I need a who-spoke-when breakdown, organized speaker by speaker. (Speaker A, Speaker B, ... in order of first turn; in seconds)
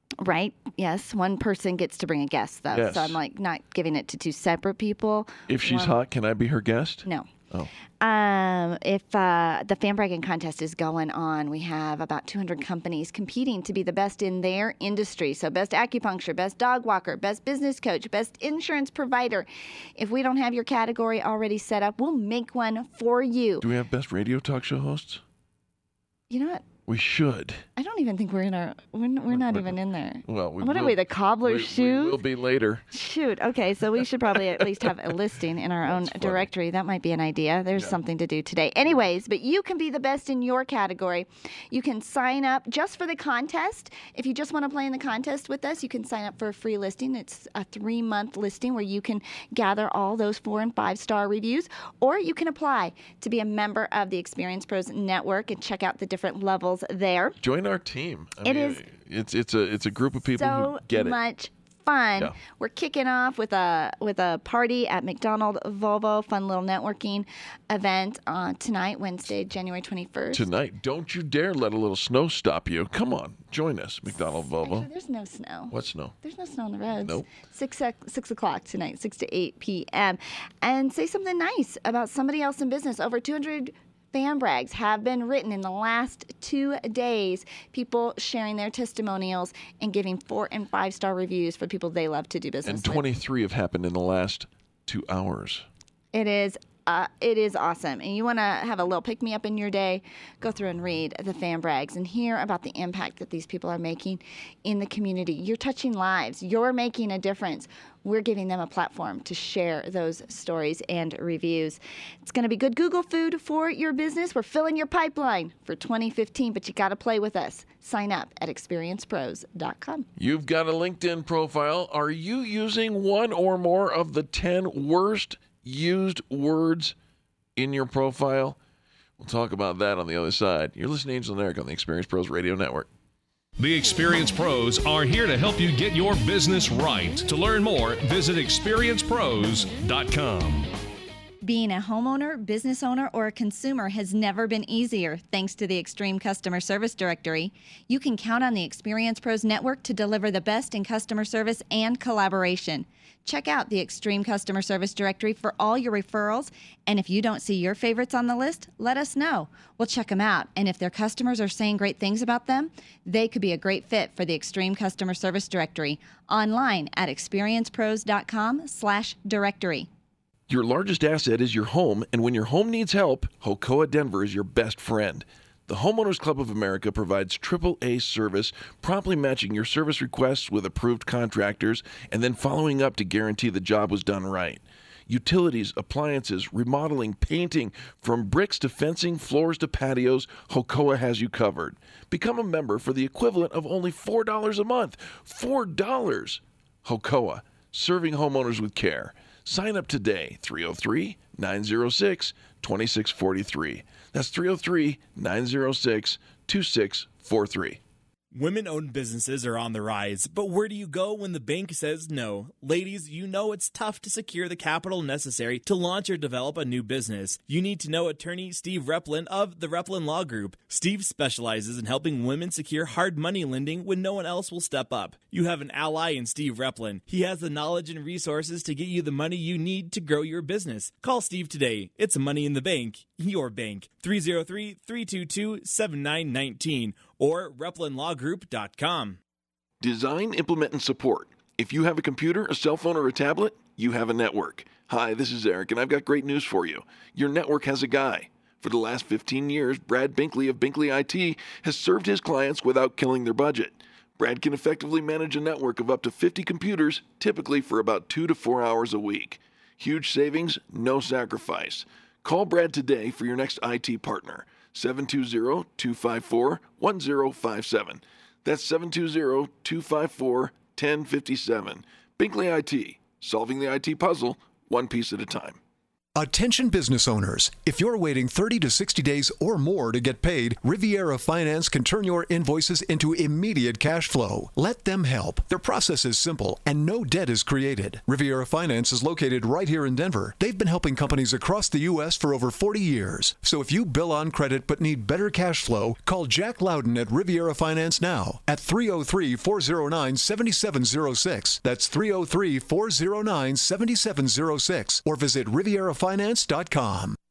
Speaker A: 0.2-5.9, 8.0-23.6, 26.3-26.6, 27.8-32.2, 32.9-57.4, 58.4-58.8, 60.4-70.5, 74.1-93.0, 96.1-120.1, 141.4-169.9
Speaker B: 2.7-3.2, 5.5-7.7, 23.6-25.2, 26.9-27.6, 29.3-32.8, 34.3-34.9, 35.8-36.5, 57.4-61.2, 70.3-74.9, 75.7-76.1, 92.6-95.7, 120.2-126.9, 127.5-128.6, 129.2-132.9, 170.5-207.8, 239.8-275.6
Speaker C: 133.6-140.7
Speaker D: 208.3-239.2
Speaker E: 276.1-307.2